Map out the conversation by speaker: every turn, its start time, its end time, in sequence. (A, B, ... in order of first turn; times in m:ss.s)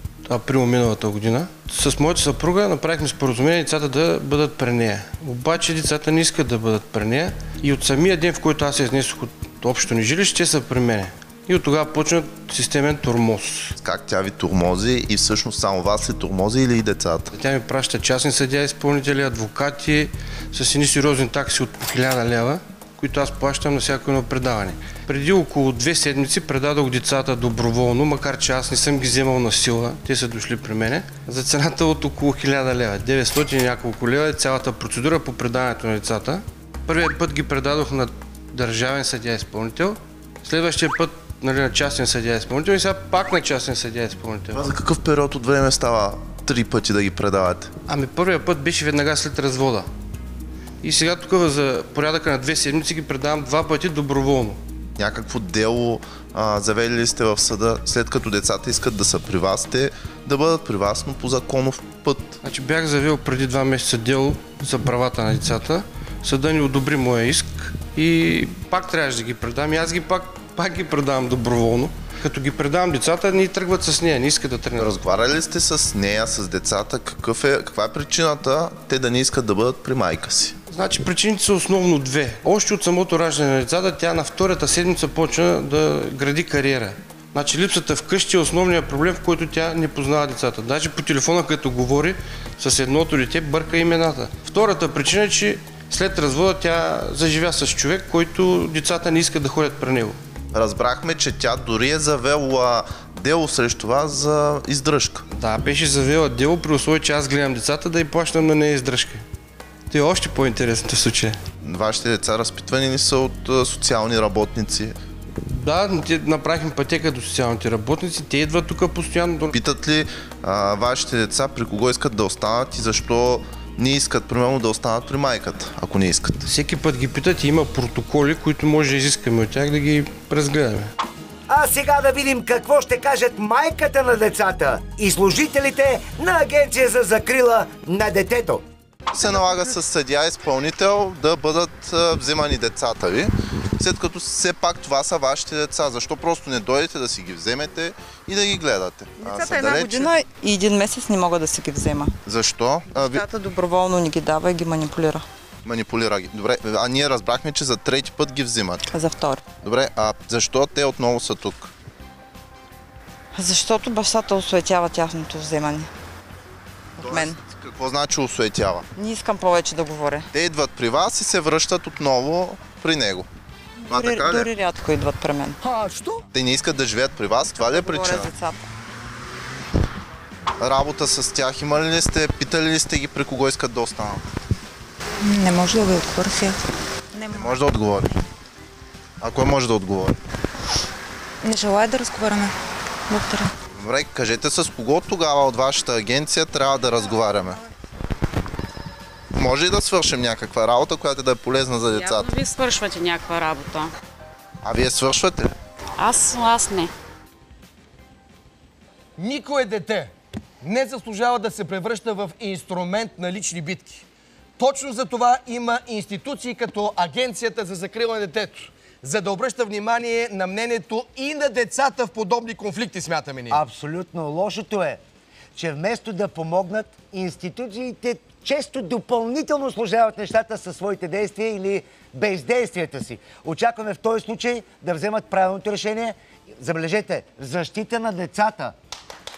0:00.2-0:13.7 A
0:13.8-0:17.3 B
0:17.3-0:44.6 A
0:44.5-0:47.7 B
0:47.9-0:49.9 A
0:50.8-0:54.6 A
0:55.0-1:02.4 B
1:02.4-1:14.9 A
1:14.8-1:20.6 B
1:20.7-1:40.2 A
1:40.5-1:45.2 B
1:45.3-1:49.2 A
1:49.9-1:51.4 A
1:51.6-1:55.0 B
1:55.4-1:59.6 A
1:59.5-2:06.5 B
2:06.4-2:10.9 A
2:11.5-2:18.6 C
2:19.1-2:30.1 B
2:29.3-2:32.1 D
2:32.3-2:33.2 B
2:32.9-2:35.3 D
2:35.6-2:38.8 B
2:38.9-2:39.4 D
2:39.6-2:41.7 B
2:43.3-2:45.9 D
2:47.0-2:47.4 D
2:47.0-2:48.9 B
2:49.0-2:50.3 D
2:50.3-2:53.3 B
2:53.8-2:55.6 D
2:53.9-2:54.5 B
2:55.7-2:56.2 E
2:56.3-2:58.3 B
2:57.6-2:58.6 D
3:00.6-3:04.3 B
3:05.2-3:06.6 F
3:07.1-3:07.6 F
3:07.3-3:08.1 B
3:09.2-3:10.2 B
3:11.4-3:12.5 F
3:13.1-3:13.5 F
3:13.7-3:17.6 B
3:19.4-3:22.3 B
3:22.0-3:23.9 G
3:24.6-3:25.6 B
3:26.0-3:26.9 G
3:29.2-3:34.0 E
3:34.6-3:43.6 E
3:43.5-3:45.0 C
3:45.6-3:58.7 C